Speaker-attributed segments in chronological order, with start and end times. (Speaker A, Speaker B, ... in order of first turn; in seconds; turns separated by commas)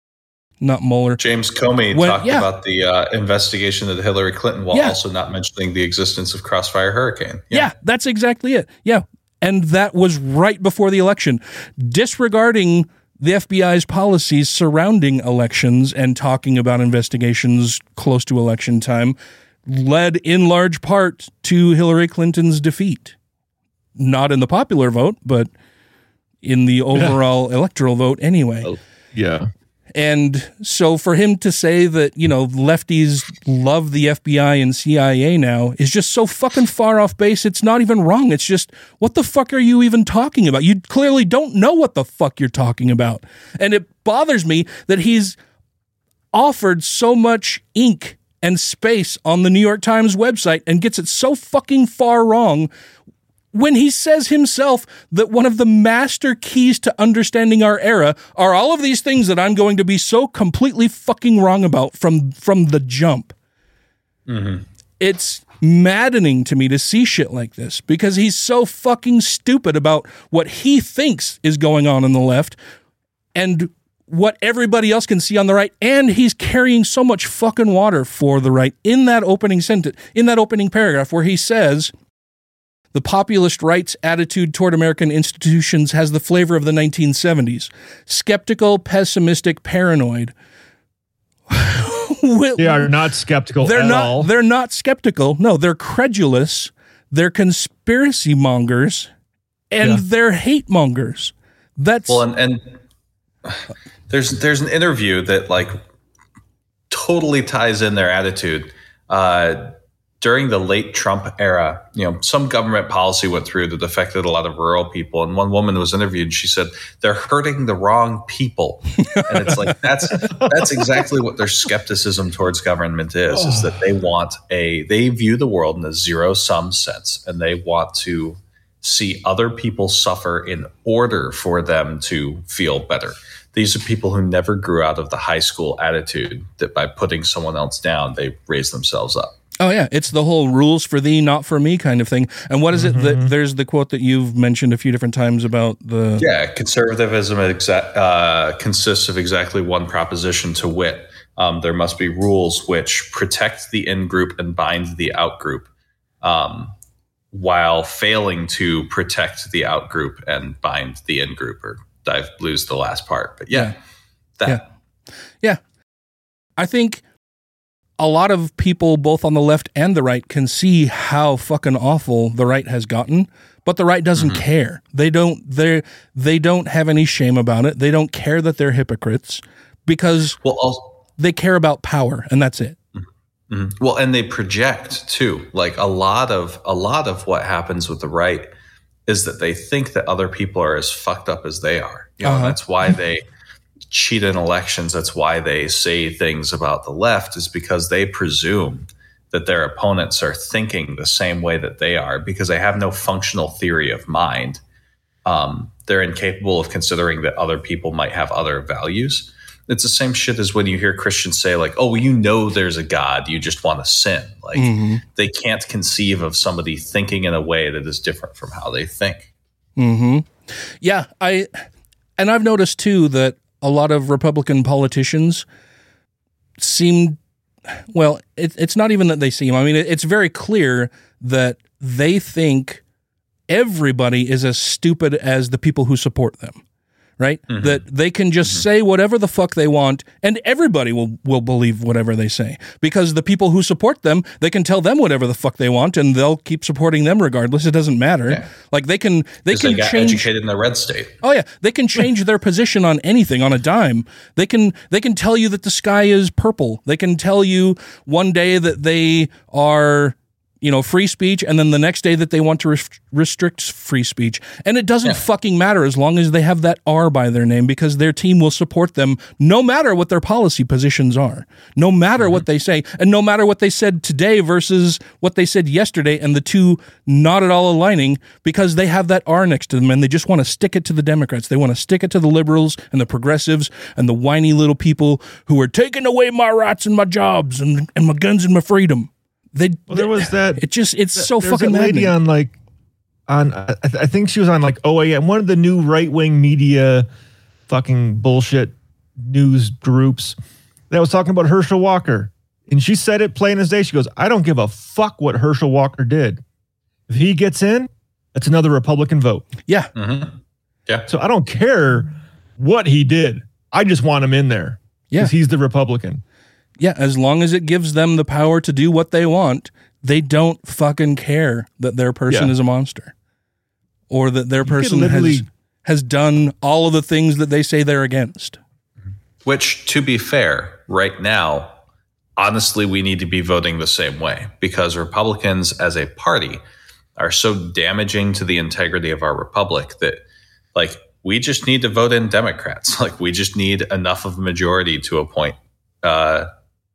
Speaker A: 0.6-1.2, Speaker B: 1.2-7.7, Speaker A: 1.9-2.5, Speaker A: 7.5-19.1, Speaker A: 19.7-23.1, Speaker A: 24.0-25.5, Speaker A: 26.4-28.7, Speaker C: 29.1-29.5, Speaker A: 29.9-45.4, Speaker A: 46.3-52.7, Speaker A: 53.5-63.3, Speaker B: 64.3-64.6, Speaker A: 65.0-72.6, Speaker A: 73.3-81.9, Speaker A: 82.9-90.3, Speaker A: 91.5-92.9, Speaker C: 92.6-94.3, Speaker A: 93.6-99.1, Speaker A: 99.7-102.2, Speaker B: 102.1-102.8, Speaker B: 103.4-105.8, Speaker B: 106.9-139.3, Speaker C: 123.3-123.8, Speaker A: 139.6-146.2, Speaker C: 142.7-143.3, Speaker B: 146.2-155.7, Speaker B: 156.2-156.7, Speaker B: 157.3-163.7, Speaker A: 166.6-167.0, Speaker A: 168.0-180.4, Speaker B: 174.2-174.4, Speaker B: 180.4-181.0, Speaker A: 181.2-182.8, Speaker B: 182.9-188.5, Speaker B: 189.1-193.2, Speaker A: 192.2-192.6, Speaker B: 193.9-204.6, Speaker B: 205.2-219.3, Speaker A: 214.5-215.0, Speaker A: 219.8-221.6, Speaker A: 222.2-225.4, Speaker A: 226.6-232.8, Speaker A: 233.5-236.6, Speaker A: 237.2-250.3, Speaker B: 237.5-237.8, Speaker B: 249.5-251.1, Speaker A: 251.2-292.1, Speaker C: 289.9-290.6, Speaker C: 291.1-292.6, Speaker C: 293.3-297.1, Speaker C: 297.7-300.4, Speaker C: 300.9-306.4, Speaker C: 307.1-309.4, Speaker B: 309.9-311.1, Speaker C: 311.1-316.2, Speaker A: 316.8-323.1, Speaker A: 324.1-328.6, Speaker C: 324.6-325.4, Speaker B: 329.4-331.8, Speaker B: 332.4-336.6, Speaker B: 337.2-340.2, Speaker B: 340.7-346.5